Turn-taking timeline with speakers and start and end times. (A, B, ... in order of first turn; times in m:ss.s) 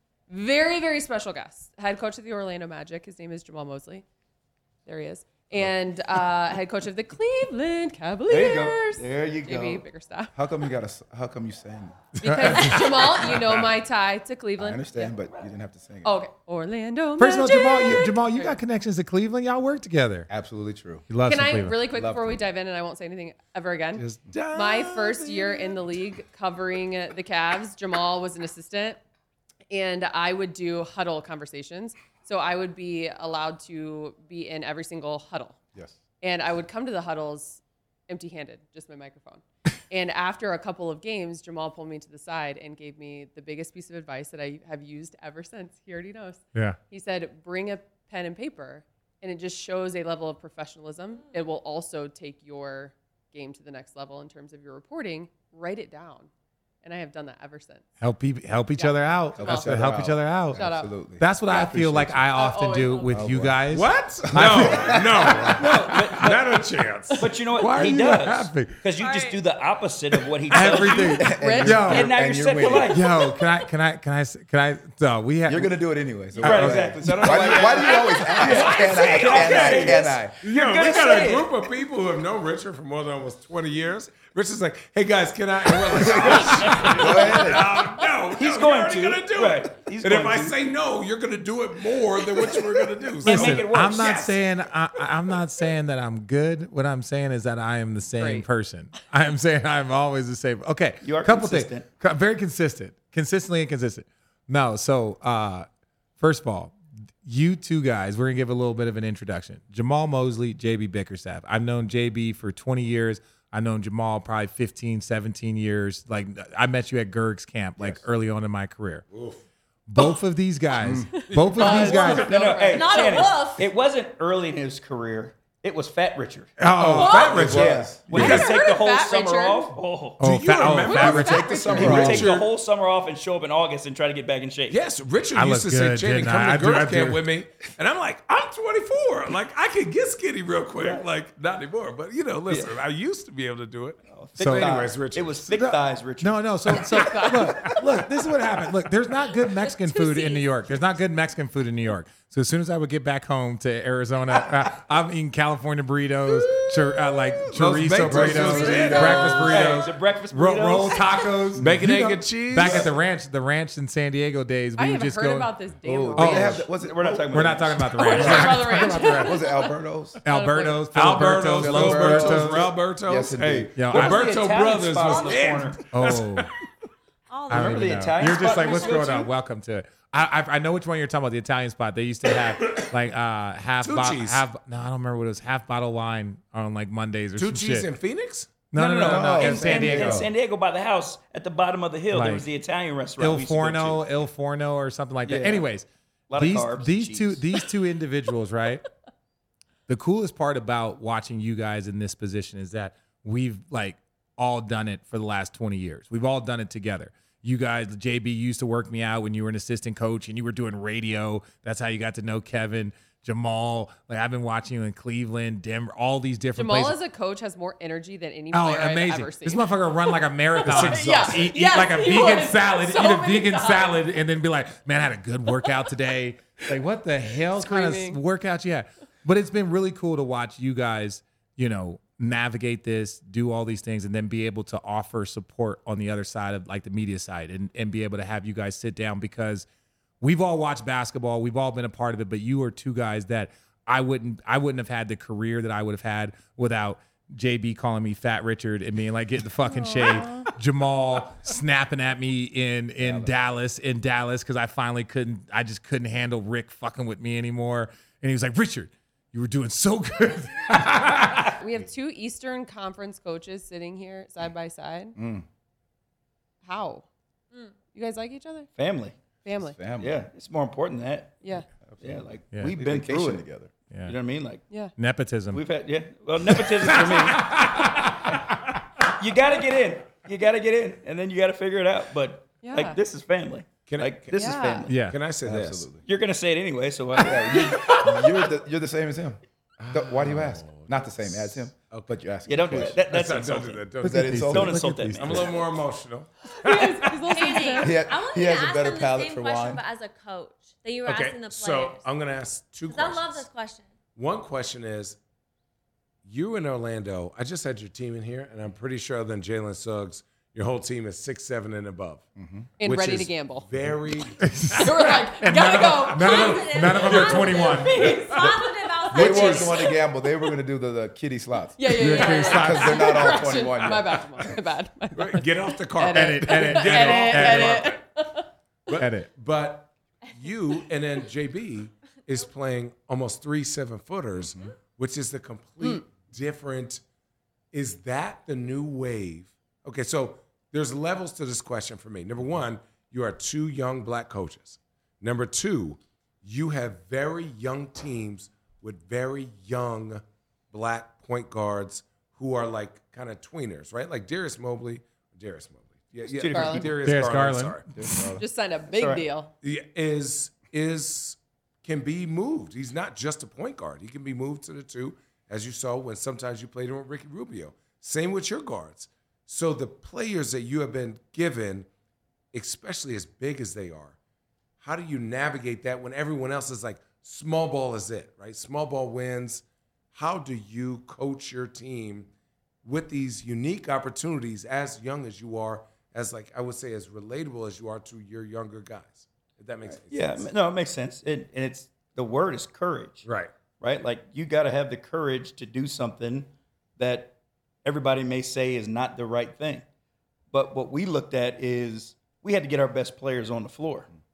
0:00.3-0:04.0 A
0:04.9-0:10.4 A
0:08.3-0:09.8 B
0:10.4-0:12.2 C
0:12.2-0:15.1 A
0:12.2-0:12.8 D
0:12.6-0:13.4 E
0:14.6-0:16.2 C
0:16.0-0:18.5 A
0:17.2-0:20.3 D
0:20.3-0:21.1 C
0:21.1-0:21.8 D
0:21.2-0:29.0 A
0:21.9-0:22.4 C
0:24.0-0:25.8 E
0:29.7-0:35.6 A
0:36.2-0:56.3 A
0:56.8-0:57.8 A
0:58.0-1:00.7 D
0:58.8-0:59.7 A
0:59.4-1:02.2 C
1:00.6-1:00.9 A
1:01.2-1:04.7 D
1:01.5-1:03.2 A
1:03.1-1:03.6 C
1:03.7-1:07.2 E
1:04.3-1:05.6 C
1:05.6-1:06.6 B
1:07.2-1:13.1 B
1:07.6-1:08.8 D
1:09.0-1:09.4 A
1:10.5-1:15.7 D
1:10.8-1:12.0 A
1:11.1-1:13.0 C
1:15.5-1:20.4 C
1:16.4-1:17.6 D
1:16.4-1:21.7 B
1:18.2-1:18.6 A
1:18.4-1:34.4 E
1:25.9-1:27.8 C
1:26.4-1:27.3 B
1:28.3-1:30.6 B
1:32.3-1:34.3 B
1:33.2-1:45.7 D
1:38.2-1:38.5 A
1:41.0-1:41.9 B
1:46.2-1:59.0 D
1:57.8-1:58.0 C
1:59.1-1:59.4 E
1:59.9-2:02.3 D
2:00.8-2:01.3 C
2:01.1-2:03.2 A
2:01.3-2:02.2 E
2:01.6-2:06.5 B
2:02.1-2:03.7 F
2:06.6-2:08.5 D
2:06.8-2:08.3 E
2:07.0-2:07.4 A
2:07.4-2:08.1 C
2:07.4-2:10.2 B
2:08.1-2:09.7 A
2:10.2-2:12.2 D
2:10.2-2:12.5 E
2:10.9-2:11.9 A
2:10.9-2:14.8 B
2:11.2-2:12.4 C
2:14.7-2:25.5 E
2:15.4-2:17.2 D
2:20.8-2:21.0 B
2:24.1-2:26.9 B
2:24.4-2:24.7 D
2:26.2-2:45.5 D
2:26.9-2:27.7 A
2:29.9-2:30.4 A
2:37.5-2:39.6 E
2:38.0-2:39.7 C
2:38.9-2:41.2 B
2:41.6-2:42.9 E
2:44.8-2:46.7 A
2:45.8-2:47.6 C
2:46.2-2:46.6 D
2:46.7-2:48.5 B
2:47.3-2:49.4 D
2:48.0-2:49.7 A
2:48.1-2:50.2 C
2:50.2-2:50.9 A
2:50.2-2:52.7 D
2:51.0-2:56.5 E
2:51.2-2:53.8 C
2:53.8-2:54.3 D
2:53.9-2:55.9 B
2:55.1-2:55.4 F
2:55.9-2:56.5 D
2:57.3-2:59.1 F
2:57.5-3:07.9 D
2:57.5-2:59.3 B
3:03.8-3:04.4 E
3:07.4-3:08.5 E
3:08.7-3:10.3 D
3:08.8-3:14.0 B
3:09.0-3:10.3 C
3:12.1-3:12.5 D
3:13.2-3:18.8 D
3:15.2-3:15.7 B
3:16.3-3:17.4 B
3:19.9-3:37.0 D
3:36.6-3:39.7 A
3:38.5-3:59.7 D
3:40.6-3:44.0 A
3:40.7-3:41.3 E
3:47.6-3:48.2 A
4:00.2-4:21.6 D
4:09.7-4:10.5 A
4:13.0-4:13.3 C
4:21.6-4:25.2 A
4:25.2-4:25.5 C
4:26.6-4:27.1 A
4:27.8-4:28.7 A
4:28.8-4:29.2 B
4:29.4-4:29.8 A
4:29.6-4:30.2 C
4:30.0-4:31.4 B
4:31.4-4:31.7 A
4:31.9-4:33.7 C
4:32.0-4:33.4 B
4:33.9-4:34.2 D
4:34.0-4:34.6 B
4:35.0-4:35.6 D
4:35.5-4:38.4 B
4:37.2-4:37.8 E
4:39.0-4:45.0 B
4:42.6-4:43.0 A
4:43.9-4:45.9 E
4:44.4-4:44.9 A
4:44.9-4:45.2 D
4:45.4-4:46.0 C
4:46.1-4:48.0 B
4:47.2-4:49.4 C
4:47.5-4:48.1 A
4:49.8-4:54.3 E
4:49.9-4:53.3 C
4:52.5-4:55.6 B
4:54.0-4:55.5 D
4:54.0-4:55.5 C
4:55.2-4:57.2 E
4:56.6-4:58.0 A
4:57.3-5:02.0 F
4:57.8-4:59.8 C
5:01.0-5:03.5 E
5:02.9-5:03.9 F
5:04.2-5:05.2 E
5:06.2-5:12.3 E
5:12.4-5:12.7 C
5:12.8-5:13.7 A
5:12.8-5:15.0 E
5:14.4-5:18.0 D
5:14.8-5:19.6 A
5:16.2-5:20.0 F
5:16.9-5:18.5 E
5:18.4-5:24.2 C
5:19.2-5:19.7 E
5:21.8-5:28.5 A
5:22.0-5:23.3 D
5:25.2-5:28.0 E
5:26.1-5:28.0 D
5:28.9-5:37.0 E
5:29.0-5:29.3 D
5:34.4-5:34.7 C
5:37.7-5:57.8 E
5:56.3-5:57.4 B
5:56.5-5:56.9 A
5:57.0-5:57.8 D
5:57.9-5:58.4 C
5:58.4-5:59.5 A
5:58.9-5:59.3 B
5:59.6-6:11.9 E
6:12.5-6:14.2 E
6:14.8-6:19.6 E
6:20.1-6:22.3 E
6:22.8-6:30.5 E
6:29.9-6:33.2 B
6:33.2-6:33.5 E
6:33.8-6:39.8 B
6:40.5-6:44.1 B